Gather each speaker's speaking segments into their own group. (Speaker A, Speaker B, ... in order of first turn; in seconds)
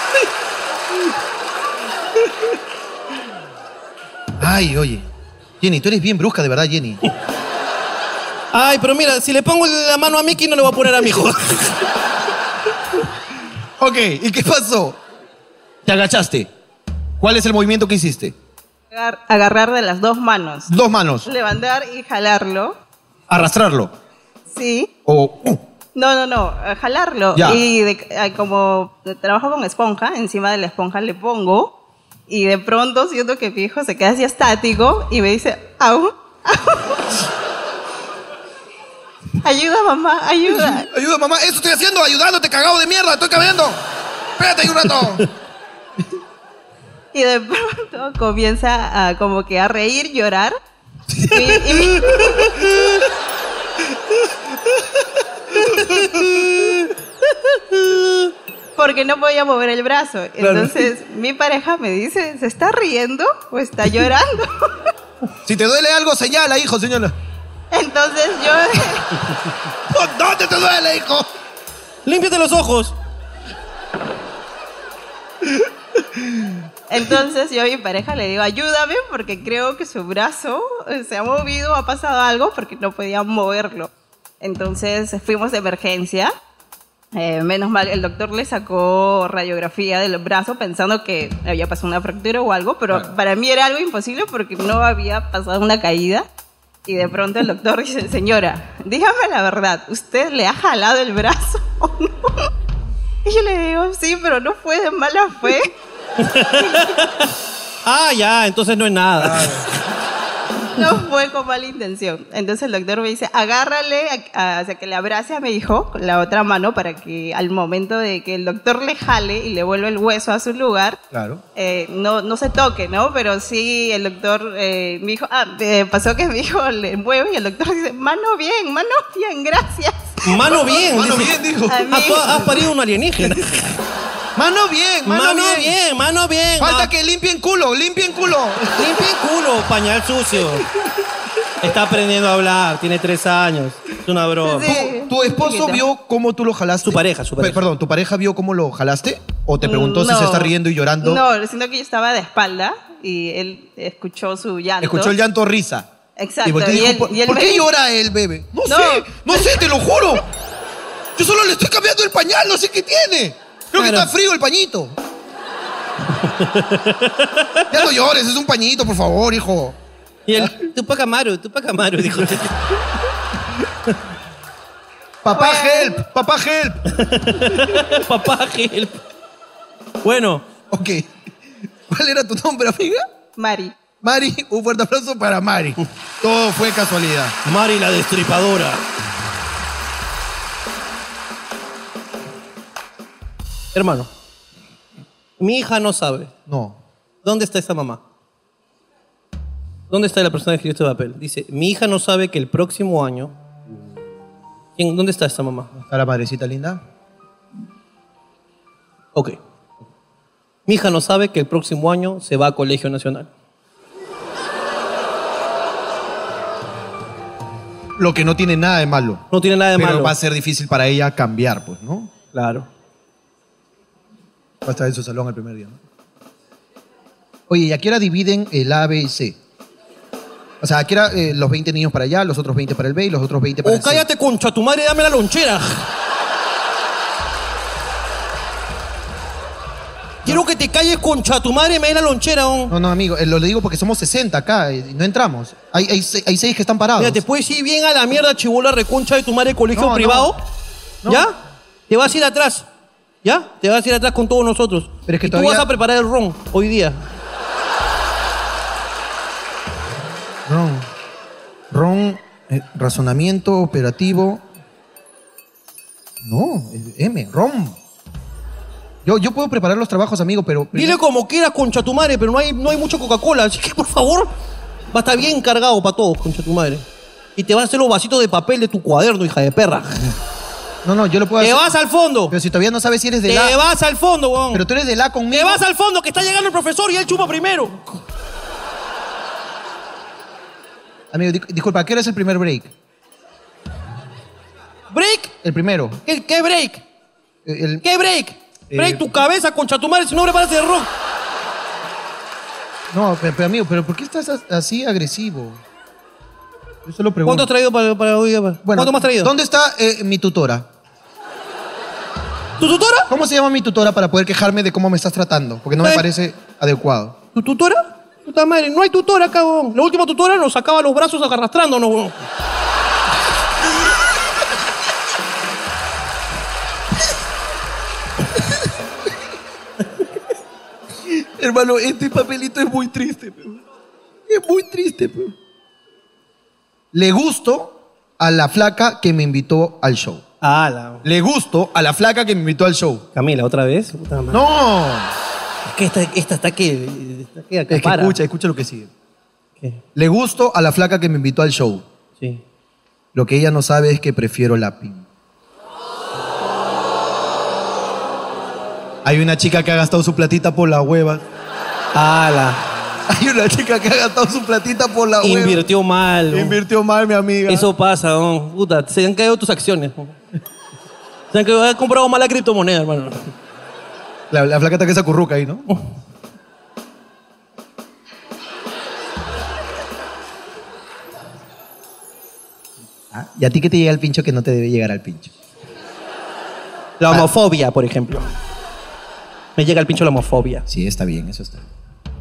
Speaker A: 4.4-5.1, 5.6-7.0, 13.8-15.0, 15.8-16.5, 17.2-18.4, 20.7-21.3, 23.3-23.9, 25.1-25.6, 27.4-27.6, 40.5-43.8, 44.4-45.3, 51.2-52.7, 55.6-56.5, 65.4-67.2, 69.9-71.3, 75.4-76.6, 109.2-109.7, 121.1-121.4, 130.4-132.2, 134.4-135.8, 136.6-139.0, 144.6-151.2, 154.8-155.9, 156.4-160.3, 161.2-165.0, 167.7-169.8, 175.2-176.8, 177.3-177.9, 180.7-181.2, 181.9-183.0, 184.0-187.4, 196.5-196.8, 205.8-206.8, 218.0-222.1, 224.6-225.8, 227.5-229.4, 230.6-234.1, 242.7-247.2, 249.7-250.3, 251.0-251.3, 255.1-255.7, 260.5-260.9, 261.7-264.4, 266.2-267.8, 269.1-271.0, 280.8-281.7, 282.3-283.6, 284.5-285.6, 291.1-292.7, 295.4-296.0, 297.4-297.8, 298.7-299.1, 302.9-305.6, 306.9-307.5, 308.6-310.7, 313.1-317.2, 331.1-333.6, 334.3-335.4, 336.9-340.2, 341.0-343.1, 344.3-345.1, 347.7-348.9, 350.0-351.9, 353.1-355.1, 359.0-361.2, 363.1-365.6, 366.3-367.7, 374.3-375.7, 383.1-385.3, 390.7-391.7
Speaker B: 8.5-11.8, 52.4-52.7, 55.6-58.3, 60.4-60.9, 72.1-73.0, 106.2-107.3, 107.8-109.6, 130.2-133.8, 135.1-136.9, 138.7-140.7, 141.6-144.8, 146.8-147.7, 163.8-164.1, 166.1-167.7, 170.3-172.6, 176.9-179.0, 180.0-180.5, 187.4-188.8, 193.7-194.1, 195.4-196.3, 197.2-198.0, 199.9-203.3, 204.8-205.7, 210.7-213.3, 219.3-220.2, 222.3-222.7, 233.7-235.9, 240.2-242.7, 247.0-250.4, 251.1-251.4, 251.9-252.7, 253.2-257.0, 270.7-274.3, 274.9-280.1, 281.4-282.4, 283.3-284.6, 285.3-288.0, 294.9-295.3, 296.1-296.8, 297.8-300.9, 307.2-309.3, 312.6-313.1, 317.4-322.2, 340.4-341.0, 343.1-344.4, 345.7-348.2, 361.9-362.6, 365.2-366.6, 367.5-370.1, 371.3-373.3, 387.0-388.3, 389.6-390.7
Speaker C: 18.9-20.7, 21.3-22.8, 24.5-24.9, 25.9-31.8, 32.3-37.0, 39.4-40.9, 47.1-50.5, 51.3-52.4, 58.8-64.9, 67.7-69.1, 76.9-83.9, 84.4-86.3, 87.2-96.3, 96.9-102.5, 103.2-105.7, 106.6-106.9, 110.8-121.0, 121.6-130.2, 131.7-132.6, 144.5-145.8, 149.6-155.2, 156.2-157.7, 158.7-159.6, 175.3-176.0, 183.4-183.8